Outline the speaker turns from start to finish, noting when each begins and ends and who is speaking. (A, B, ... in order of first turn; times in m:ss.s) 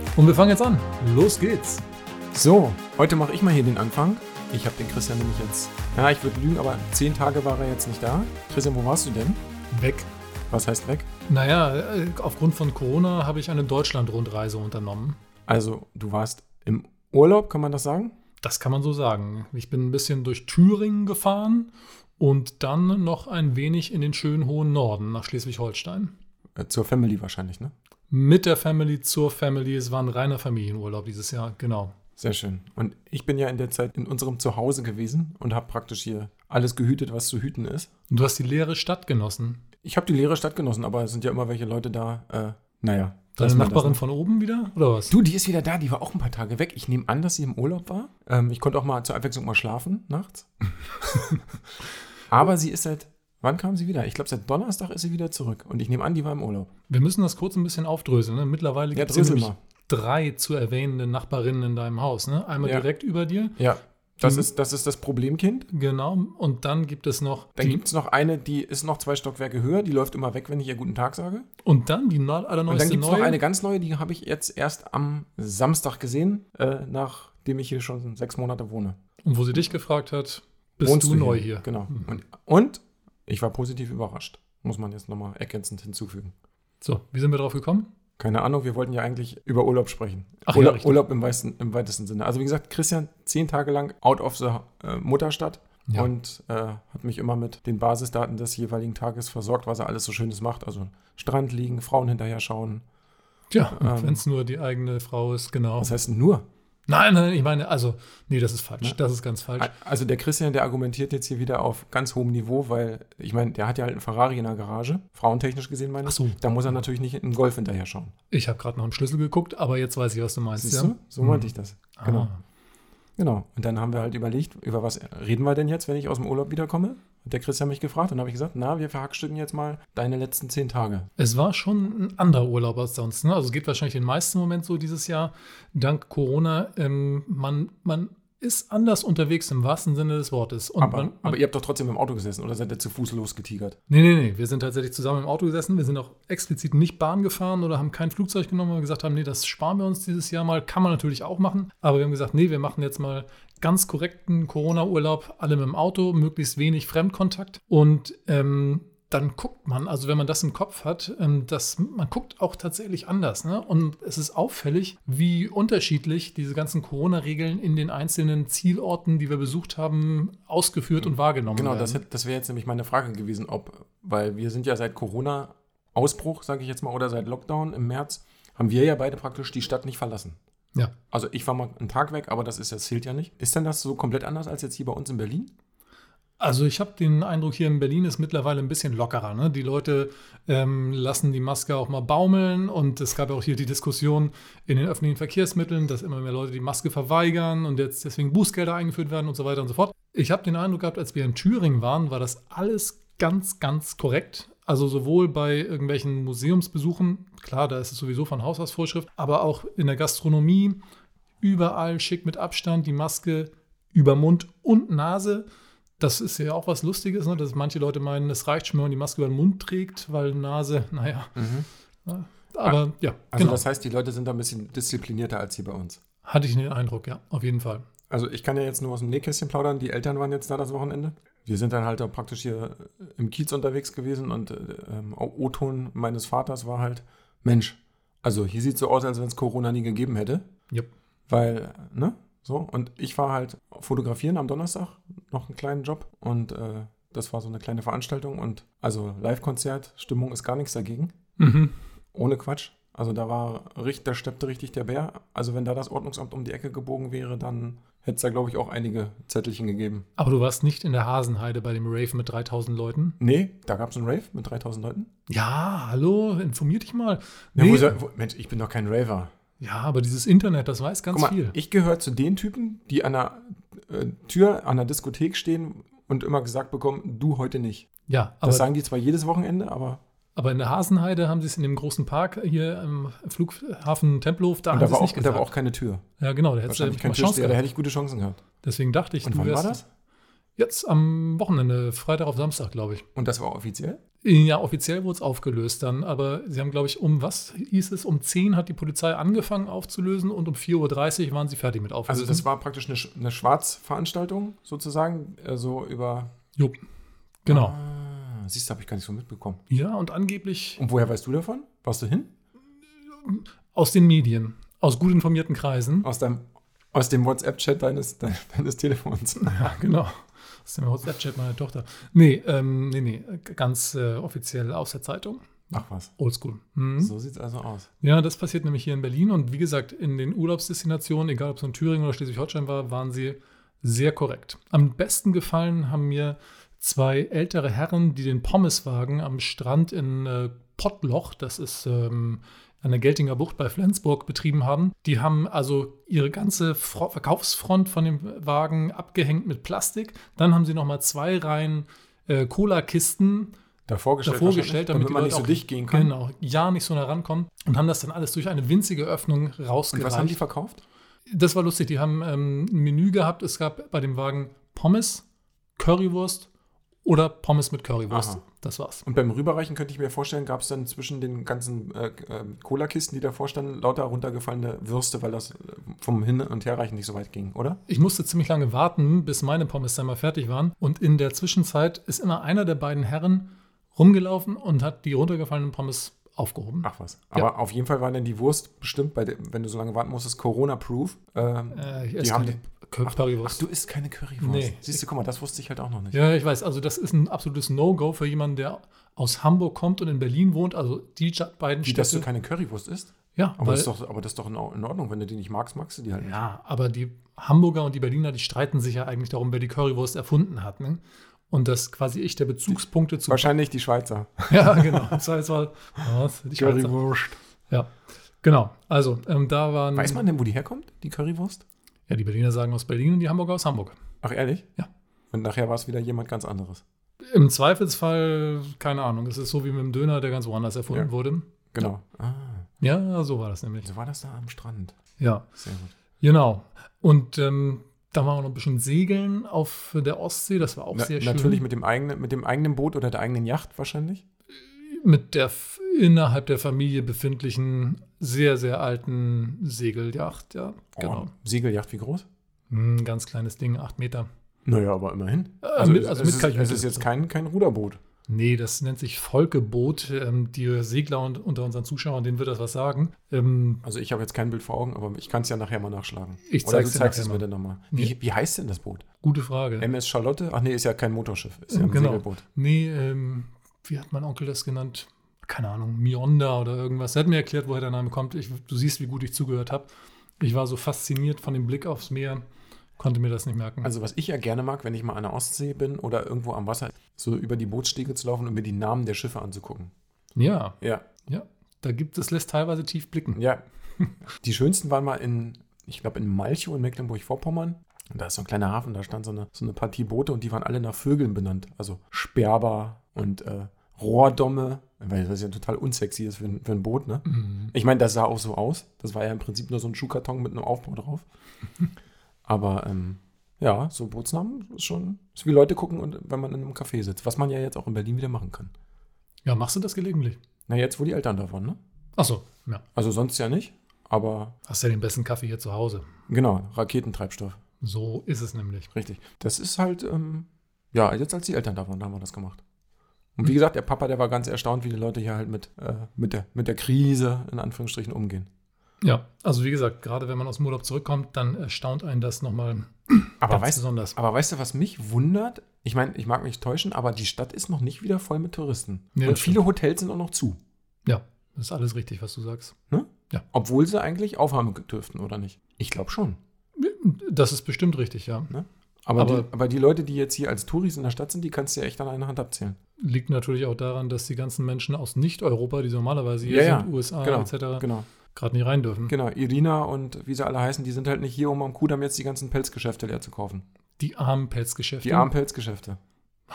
0:00.2-0:01.8 A
0:02.3-0:09.4 B
0:09.7-0:10.1 A
0:10.5-0:11.1 B
0:11.3-0:15.2 A
0:15.5-0:18.2 B
0:18.4-0:26.1 A
0:26.6-0:27.7 B
0:28.1-0:31.9 A
0:32.2-0:37.9 B
0:38.1-0:39.6 A
0:39.8-0:44.0 B
0:43.4-0:45.2 A
0:45.1-0:51.5 B
0:52.3-0:56.7 B
0:56.9-1:03.6 A
0:59.0-0:59.6 B
1:03.6-1:05.7 B
1:05.7-1:07.8 A
1:07.6-1:11.5 B
1:11.6-1:13.4 A
1:12.7-1:19.0 B
1:19.2-1:22.0 A
1:20.8-1:26.3 B
1:26.8-1:27.9 A
1:28.2-1:42.8 B
1:30.5-1:31.0 A
1:43.5-1:45.9 A
1:43.7-1:44.2 B
1:45.8-1:46.5 B
1:46.9-1:49.7 A
1:49.6-1:58.1 B
1:56.0-1:56.4 A
1:58.3-2:02.4 A
2:00.6-2:02.3 B
2:03.2-2:11.1 B
2:11.2-2:21.4 A
2:20.8-2:23.8 B
2:23.9-2:52.0 A
2:51.5-3:00.4 B
3:01.1-3:05.5 B
3:06.4-3:30.8 A
3:31.4-3:35.5 A
3:36.0-3:41.5 A
3:41.4-3:41.7 B
3:42.0-3:43.6 A
3:43.3-3:46.0 B
3:46.2-3:47.9 A
3:48.1-4:00.5 B
4:01.3-4:11.2 B
4:11.4-4:11.8 A
4:12.1-4:20.1 B
4:20.2-4:23.2 A
4:23.2-4:25.1 B
4:25.3-4:28.0 A
4:27.6-4:29.3 B
4:29.6-4:31.6 A
4:31.1-4:37.9 B
4:38.1-4:38.7 A
4:38.4-4:40.0 B
4:40.4-4:45.5 A
4:44.7-4:46.0 B
4:46.2-4:47.6 A
4:46.7-4:48.4 B
4:48.6-4:49.8 A
4:49.2-4:49.8 B
4:50.6-4:53.1 A
4:53.2-4:54.0 B
4:54.2-5:02.4 A
5:02.1-5:06.3 B
5:07.4-5:07.8 A
5:07.5-5:09.6 B
5:09.7-5:10.8 A
5:10.8-5:12.3 B
5:13.1-5:16.1 A
5:16.0-5:19.7 B
5:19.4-5:27.1 A
5:25.7-5:26.1 B
5:27.0-5:27.9 B
5:28.0-5:53.5 A
5:53.9-5:56.1 B
5:54.2-6:00.4 A
5:59.9-6:00.8 B
6:01.3-6:05.2 A
6:05.8-6:06.5 A
6:07.0-6:09.0 A
6:08.1-6:08.4 B
6:09.0-6:17.8 B
6:17.9-6:27.5 A
6:26.8-6:36.2 B
6:31.7-6:33.6 A
6:34.4-6:35.0 A
6:36.1-6:42.3 A
6:41.8-6:46.4 B
6:43.4-6:43.9 A
6:46.2-6:53.5 A
6:53.3-6:55.2 B
6:54.5-6:57.0 A
6:56.6-6:57.4 B
6:57.7-7:00.2 A
7:00.0-7:01.6 B
7:02.1-7:04.0 A
7:04.2-7:04.7 B
7:05.3-7:06.8 B
7:07.2-7:11.5 A
7:11.7-7:12.7 B
7:12.8-7:13.9 A
7:13.8-7:15.0 B
7:15.2-7:15.5 A
7:15.6-7:15.9 B
7:16.2-7:21.6 A
7:20.9-7:24.2 B
7:24.7-7:31.3 A
7:31.0-7:32.3 B
7:32.7-7:34.3 A
7:34.6-7:38.0 B
7:35.6-7:37.1 A
7:38.3-7:43.8 A
7:43.8-7:49.1 B
7:46.5-7:48.1 A
7:49.2-7:49.9 A
7:49.8-7:52.4 B
7:51.7-7:59.9 A
8:00.4-8:02.4 A
8:03.0-8:03.9 A
8:03.8-8:09.9 B
8:10.4-8:13.4 A
8:10.8-8:11.1 B
8:13.4-8:13.6 B
8:14.3-8:31.2 B
8:27.3-8:27.7 A
8:32.5-8:38.7 B
8:39.4-8:40.4 A
8:40.7-8:41.8 B
8:42.2-8:42.8 A
8:43.0-8:44.6 B
8:44.7-8:46.1 A
8:46.3-8:47.6 B
8:47.8-8:48.9 A
8:48.9-8:52.6 B
8:53.4-8:58.5 B
8:59.0-9:04.2 A
9:03.4-9:10.6 B
9:09.2-9:09.6 A
9:11.1-9:12.8 A
9:12.9-9:16.4 B
9:16.8-9:18.5 A
9:18.5-9:22.8 B
9:19.2-9:19.5 A
9:23.0-9:29.1 A
9:26.4-9:28.1 B
9:29.1-9:33.6 B
9:34.0-9:35.3 A
9:35.0-9:36.0 B